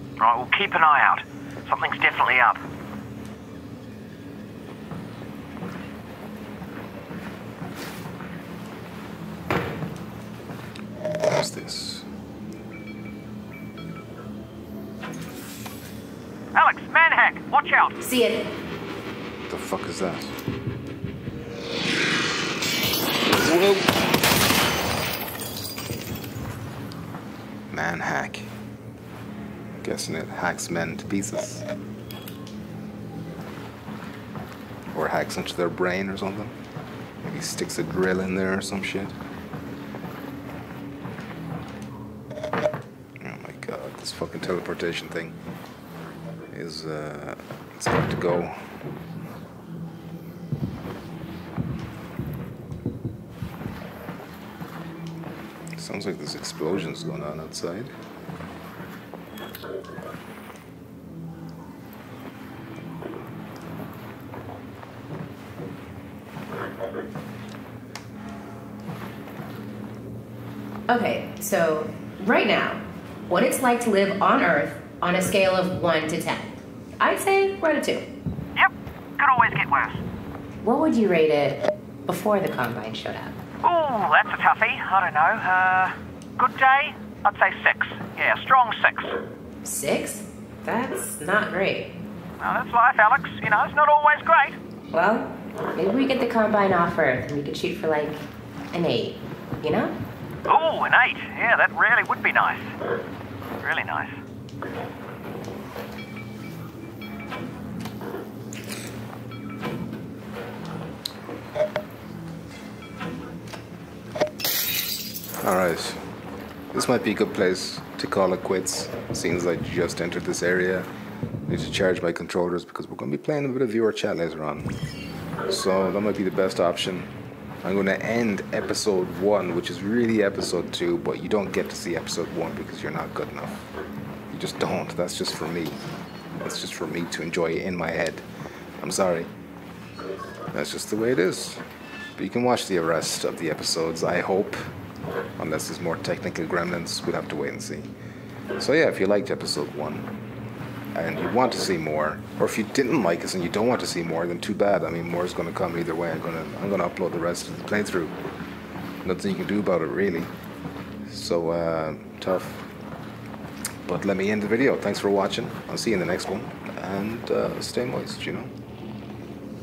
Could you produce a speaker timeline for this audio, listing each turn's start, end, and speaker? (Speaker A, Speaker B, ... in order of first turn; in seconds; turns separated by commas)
Speaker A: 0.2-2.6, Speaker B: 11.2-12.1, Speaker A: 16.5-18.0, Speaker C: 18.0-18.5, Speaker B: 19.5-20.3, Speaker B: 23.2-23.9, Speaker B: 27.7-28.5, Speaker B: 29.8-31.6, Speaker B: 34.9-36.5, Speaker B: 37.2-39.1, Speaker B: 43.2-45.4, Speaker B: 46.5-48.6, Speaker B: 55.8-57.9, Speaker C: 70.9-78.1, Speaker A: 78.5-80.0, Speaker C: 80.6-83.4, Speaker A: 83.6-89.2, Speaker C: 89.6-91.9, Speaker A: 92.4-94.6, Speaker C: 94.9-99.9, Speaker A: 100.5-102.7, Speaker A: 103.6-104.2, Speaker B: 115.4-116.0, Speaker B: 116.7-120.9, Speaker B: 121.5-124.7, Speaker B: 125.5-127.1, Speaker B: 127.6-133.7, Speaker B: 134.3-135.8, Speaker B: 136.4-138.2, Speaker B: 138.8-139.3, Speaker B: 140.5-141.6, Speaker B: 142.2-144.6, Speaker B: 145.4-147.9, Speaker B: 148.6-150.1, Speaker B: 150.9-158.2, Speaker B: 159.0-160.3, Speaker B: 161.1-162.7, Speaker B: 163.8-168.5